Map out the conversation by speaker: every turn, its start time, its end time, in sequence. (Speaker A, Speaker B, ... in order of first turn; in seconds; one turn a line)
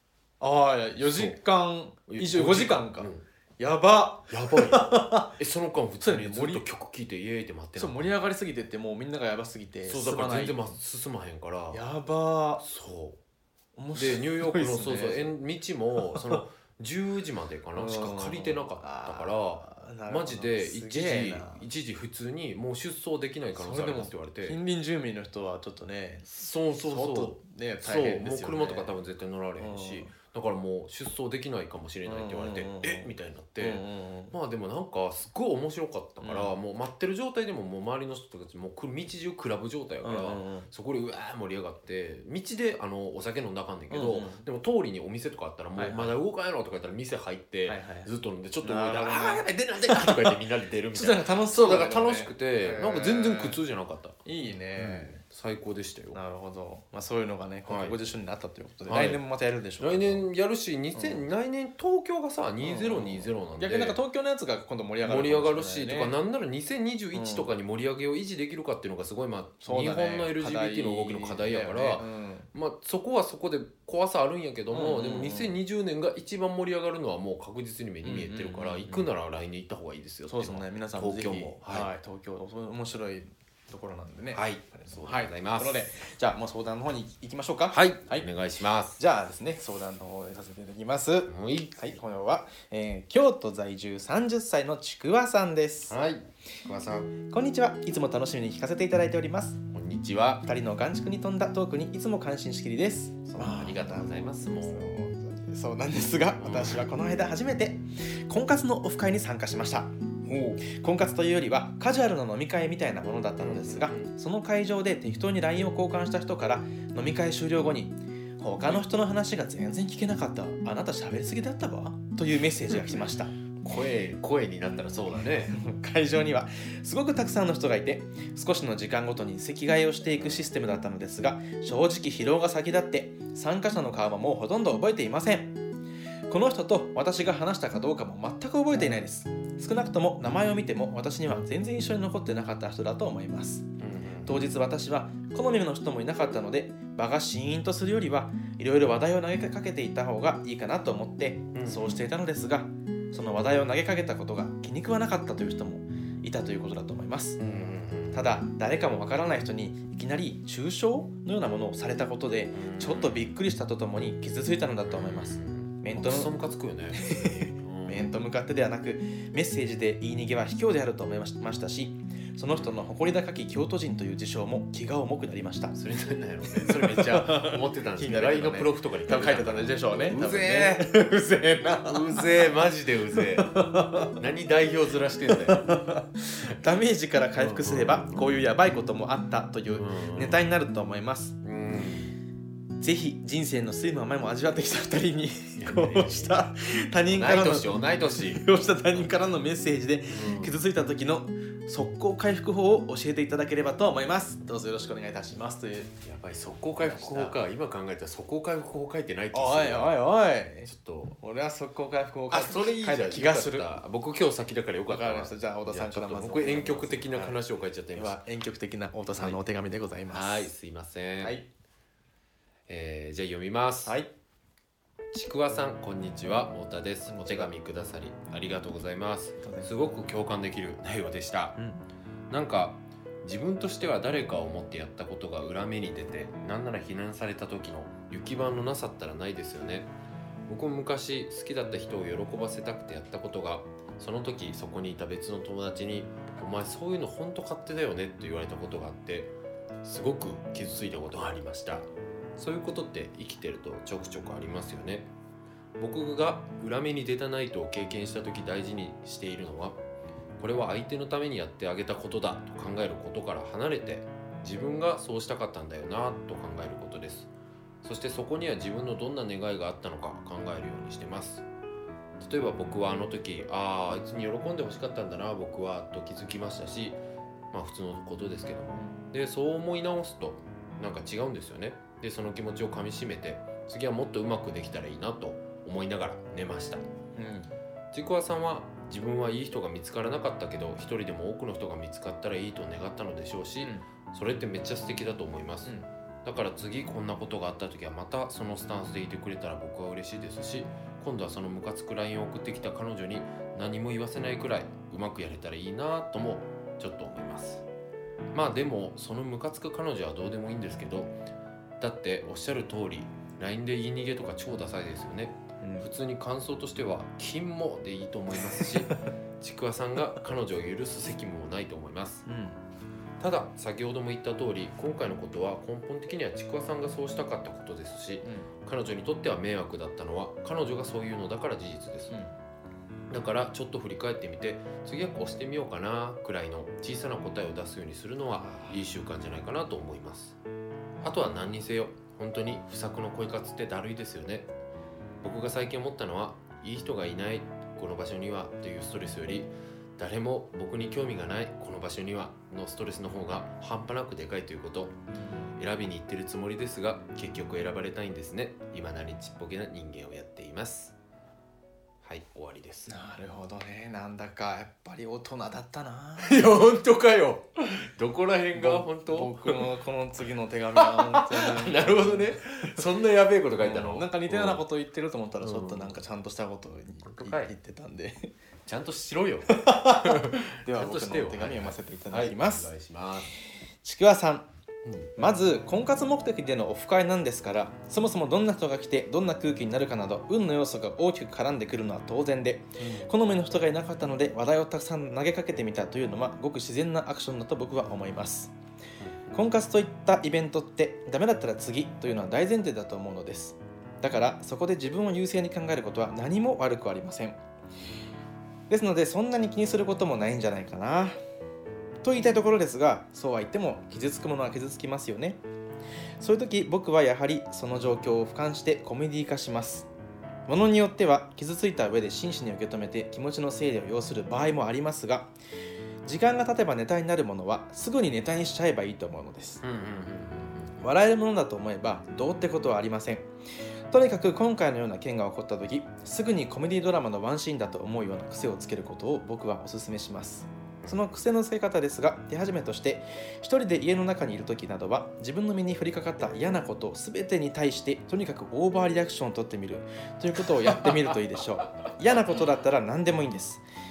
Speaker A: 0.4-5.4
Speaker B: 1.0-1.4
Speaker B: 2.1-3.2
Speaker B: 4.3-8.3
Speaker A: 6.0-6.7
Speaker A: 7.8-10.8
Speaker B: 9.9-11.8
Speaker A: 11.7-12.6
Speaker B: 12.6-13.2
Speaker A: 13.8-15.3
Speaker B: 13.9-24.6
Speaker A: 16.0-16.4
Speaker A: 17.8-21.7
Speaker A: 23.6-28.9
Speaker B: 26.3-54.2
Speaker A: 29.6-30.1
Speaker A: 32.1-34.4
Speaker A: 36.2-36.5
Speaker A: 40.0-40.7
Speaker A: 43.9-44.5
Speaker A: 45.8-46.1
Speaker A: 47.7-48.1
Speaker A: 48.6-50.4
Speaker A: 50.9-53.6
Speaker A: 54.2-55.2
Speaker B: 54.8-56.2
Speaker A: 56.1-60.3
Speaker B: 57.7-58.0
Speaker B: 58.9-59.2
Speaker B: 59.8-64.0
Speaker A: 61.0-61.2
Speaker A: 62.6-66.1
Speaker B: 65.0-81.9
Speaker A: 67.1-67.5
Speaker A: 69.6-72.5
Speaker A: 74.7-75.6
Speaker A: 78.0-79.1
Speaker A: 80.3-88.3
Speaker B: 84.3-85.8
Speaker B: 87.7-89.0
Speaker A: 89.0-96.0
Speaker B: 91.3-92.0
Speaker B: 95.9-97.1
Speaker A: 97.2-99.6
Speaker B: 99.7-100.5
Speaker A: 100.5-109.9
Speaker B: 103.3-104.9
Speaker B: 106.4-106.9
Speaker B: 110.3-110.6
Speaker A: 110.6-123.3
Speaker B: 113.4-114.1
Speaker B: 122.7-123.0
Speaker B: 123.6-125.6
Speaker A: 125.5-135.6
Speaker A: 136.3-143.7
Speaker B: 143.8-144.4
Speaker A: 144.2-157.4
Speaker B: 151.5-152.1
Speaker B: 157.4-158.3
Speaker A: 158.1-166.3
Speaker B: 162.5-163.3
Speaker B: 164.9-168.1
Speaker A: 166.9-175.8
Speaker B: 175.8-180.9
Speaker A: 176.5-182.6
Speaker B: 181.9-183.5
Speaker A: 183.2-184.2
Speaker B: 184.2-185.8
Speaker A: 185.3-191.4
Speaker B: 187.4-188.3
Speaker B: 189.7-190.4
Speaker B: 191.4-192.2
Speaker A: 192.8-206.0
Speaker B: 195.6-196.4
Speaker B: 197.1-199.1
Speaker B: 200.1-200.6
Speaker B: 206.0-210.0
Speaker A: 206.8-207.4
Speaker A: 209.3-213.7
Speaker B: 210.7-211.2
Speaker B: 212.3-218.2
Speaker A: 214.9-217.4
Speaker A: 217.9-220.5
Speaker B: 220.1-221.4
Speaker A: 221.2-221.5
Speaker B: 222.7-224.0
Speaker B: 225.1-231.6
Speaker A: 227.1-227.5
Speaker A: 229.4-229.7
Speaker A: 231.6-231.9
Speaker B: 232.3-239.9
Speaker B: 240.5-255.1
Speaker B: 255.8-259.8
Speaker B: 260.4-267.3
Speaker B: 267.8-271.5
Speaker B: 272.2-277.0
Speaker B: 277.5-286.8
Speaker A: 287.2-287.5
Speaker B: 287.9-307.7
Speaker A: 293.6-293.9
Speaker B: 308.3-311.1
Speaker B: 311.8-322.2
Speaker A: 315.6-315.9
Speaker A: 318.6-318.9
Speaker A: 322.3-322.6
Speaker B: 323.2-332.2
Speaker B: 333.1-340.4
Speaker A: 338.4-338.7
Speaker B: 341.0-344.5
Speaker B: 345.2-354.9
Speaker A: 355.1-355.5
Speaker B: 355.6-361.0
Speaker B: 362.0-362.9
Speaker A: 362.9-366.4
Speaker B: 366.2-369.7
Speaker A: 368.6-372.8
Speaker B: 370.8-374.6
Speaker A: 373.6-378.3
Speaker B: 375.4-376.0
Speaker B: 377.1-377.5
Speaker B: 378.7-383.3
Speaker A: 379.5-382.7
Speaker A: 383.8-384.5
Speaker B: 384.9-385.1
Speaker A: 385.2-398.5
Speaker B: 392.8-393.1
Speaker A: 399.3-407.4
Speaker A: 408.7-411.1
Speaker A: 412.0-415.4
Speaker A: 416.2-419.9
Speaker A: 420.5-425.3
Speaker A: 426.1-429.6
Speaker B: 429.6-430.8
Speaker A: 430.8-433.3
Speaker A: 433.9-453.6
Speaker B: 450.6-451.2